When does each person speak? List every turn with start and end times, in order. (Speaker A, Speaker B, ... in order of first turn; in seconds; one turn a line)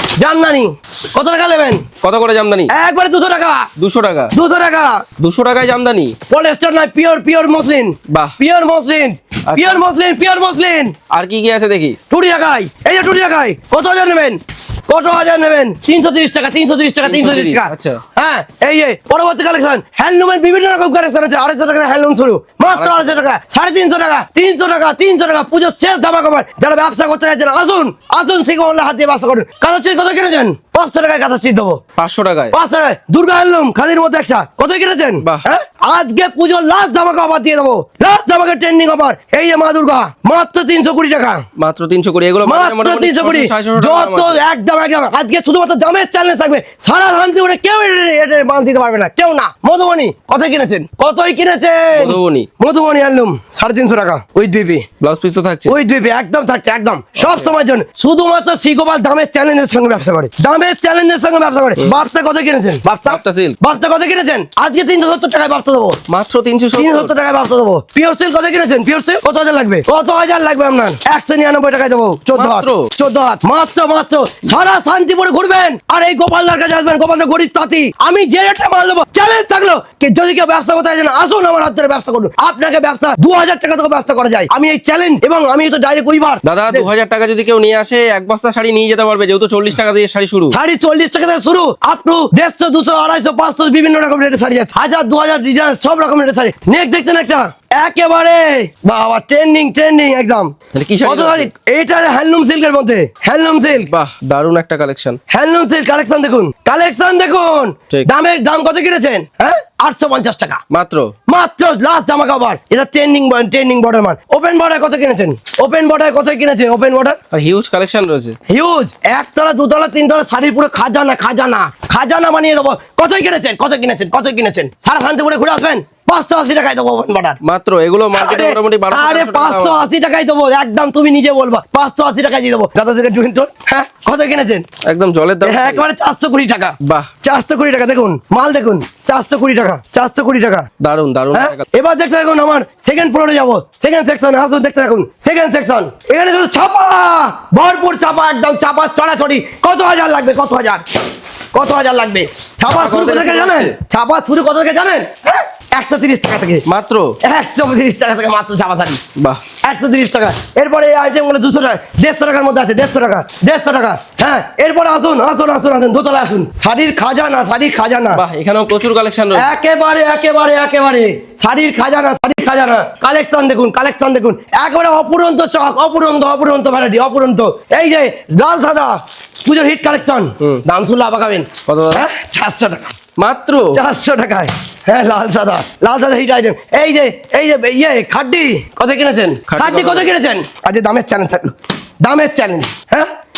Speaker A: 0.2-1.9
Speaker B: 2.0-2.7
Speaker A: 2.7-3.7
Speaker B: 3.8-4.3
Speaker A: 4.3-5.0
Speaker B: 5.2-6.2
Speaker A: 6.3-10.9
Speaker B: 8.1-8.3
Speaker B: 9.5-9.8
Speaker B: 11.1-12.0
Speaker A: 12.1-31.8
Speaker B: 17.0-18.0
Speaker B: 22.7-23.1
Speaker B: 32.0-32.5
Speaker A: 32.5-41.5
Speaker B: 41.5-44.4
Speaker A: 42.4-54.9
Speaker B: 51.9-52.5
Speaker B: 55.0-55.7
Speaker A: 55.7-66.0
Speaker B: 57.2-57.5
Speaker B: 63.1-63.6
Speaker B: 66.1-67.1
Speaker A: 66.7-86.9
Speaker B: 72.3-72.9
Speaker B: 86.4-90.6
Speaker A: 90.5-103.9
Speaker B: 100.7-101.5
Speaker B: 103.8-105.2
Speaker A: 105.3-110.6
Speaker B: 110.7-111.1
Speaker A: 111.3-117.2
Speaker B: 117.3-118.4
Speaker A: 118.5-127.4
Speaker B: 127.4-129.8
Speaker A: 128.1-134.7
Speaker B: 134.8-135.8
Speaker A: 135.4-140.7
Speaker B: 136.8-137.1
Speaker B: 140.8-141.7
Speaker A: 141.3-150.8
Speaker A: 151.5-156.7
Speaker B: 152.7-153.8
Speaker B: 156.7-157.2
Speaker A: 157.2-159.0
Speaker B: 159.2-159.4
Speaker A: 159.6-168.2
Speaker B: 168.1-169.5
Speaker A: 169.3-182.9
Speaker B: 181.7-182.0
Speaker B: 183.2-183.8
Speaker A: 183.7-193.1
Speaker B: 189.5-190.1